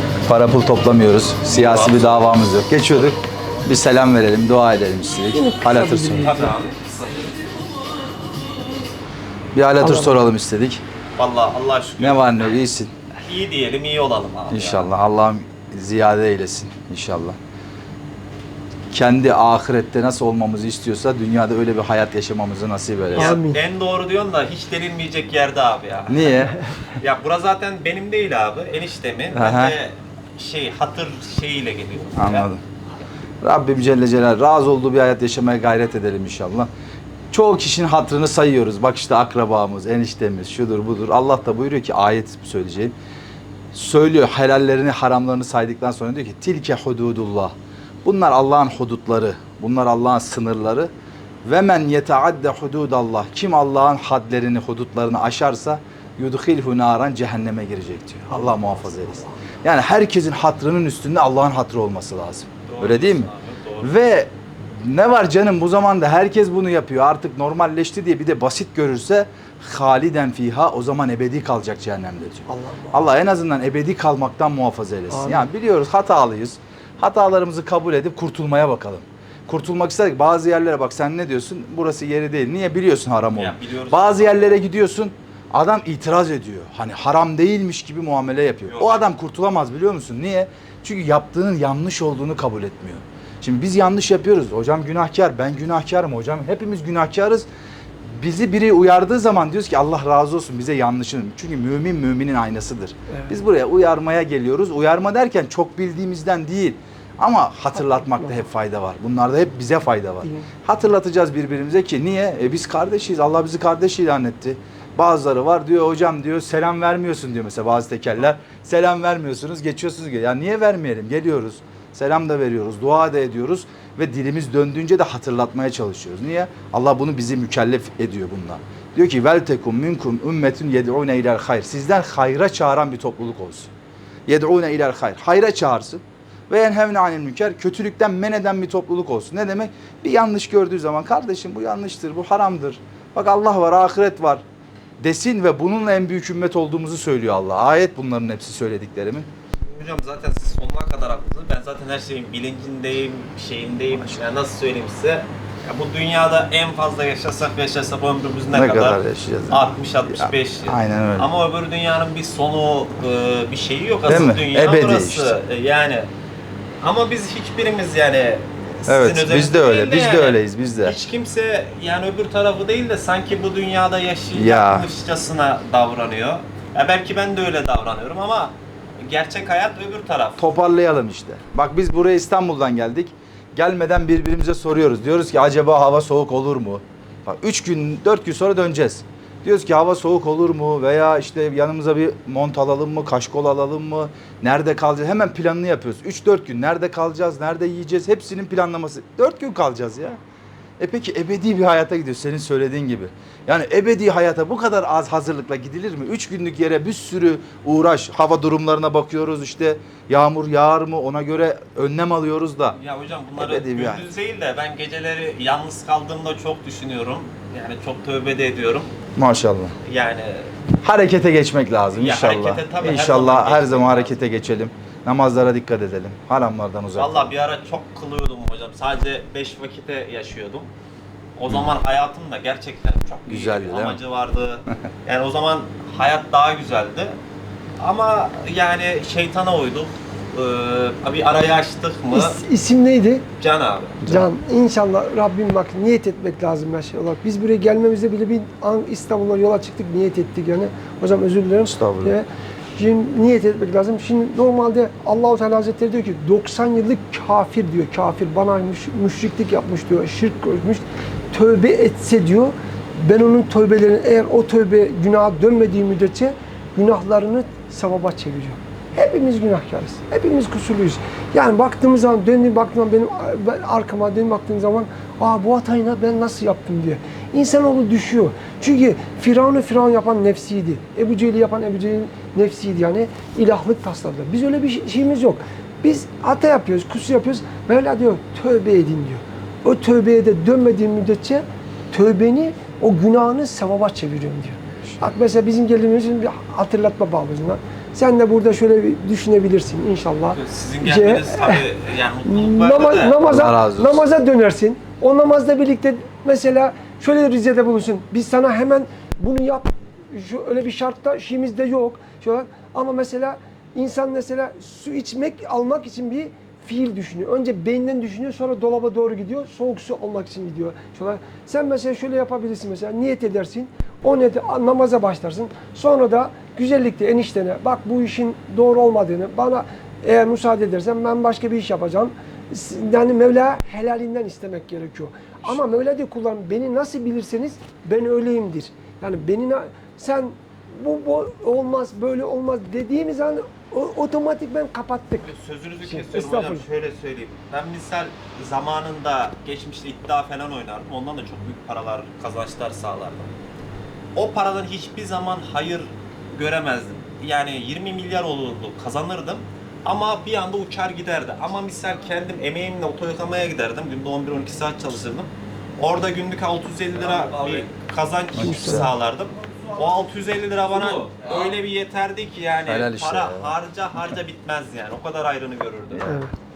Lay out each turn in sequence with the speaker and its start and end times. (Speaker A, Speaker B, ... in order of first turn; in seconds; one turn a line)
Speaker A: 0.3-6.4
Speaker B: 1.5-2.4
Speaker C: 5.3-6.5
Speaker B: 6.2-7.4
Speaker A: 9.5-10.8
Speaker C: 9.8-10.2
Speaker B: 11.2-12.5
Speaker A: 12.0-12.9
Speaker B: 13.2-14.9
Speaker A: 14.5-17.4
Speaker A: 18.9-23.4
Speaker B: 23.1-32.5
Speaker C: 23.2-23.6
Speaker A: 26.1-26.6
Speaker A: 29.3-29.8
Speaker A: 32.1-32.6
Speaker A: 33.4-36.7
Speaker A: 37.3-42.9
Speaker A: 43.7-47.5
Speaker A: 48.0-50.9
Speaker A: 51.5-97.5
Speaker C: 58.3-58.6
Speaker B: 62.7-63.9
Speaker C: 72.5-73.0
Speaker C: 75.1-75.5
Speaker B: 83.3-84.6
Speaker B: 88.7-89.0
Speaker A: 98.2-133.7
Speaker C: 107.9-108.3
Speaker A: 134.3-144.4
Speaker A: 145.0-149.3
Speaker B: 149.6-159.0
Speaker A: 158.5-161.3
Speaker B: 159.5-166.1
Speaker A: 164.1-165.3
Speaker B: 166.8-180.4
Speaker A: 168.9-171.0
Speaker A: 174.3-174.9
Speaker A: 180.4-200.2
Speaker A: 200.8-212.8
Speaker B: 212.8-218.9
Speaker A: 213.4-214.0
Speaker A: 219.2-219.8
Speaker B: 219.9-220.5
Speaker A: 220.8-227.3
Speaker B: 221.9-224.2
Speaker B: 226.9-230.7
Speaker B: 231.4-237.2
Speaker A: 233.3-234.0
Speaker B: 237.8-242.4
Speaker C: 242.1-243.3
Speaker B: 243.4-244.0
Speaker A: 244.0-244.3
Speaker C: 244.1-301.7
Speaker A: 251.7-252.2
Speaker B: 300.3-303.2
Speaker C: 302.2-346.6
Speaker A: 303.2-304.1
Speaker B: 345.2-353.3
Speaker B: 354.2-376.1
Speaker A: 368.3-368.9
Speaker C: 368.4-368.9
Speaker A: 372.7-373.6
Speaker C: 376.0-376.3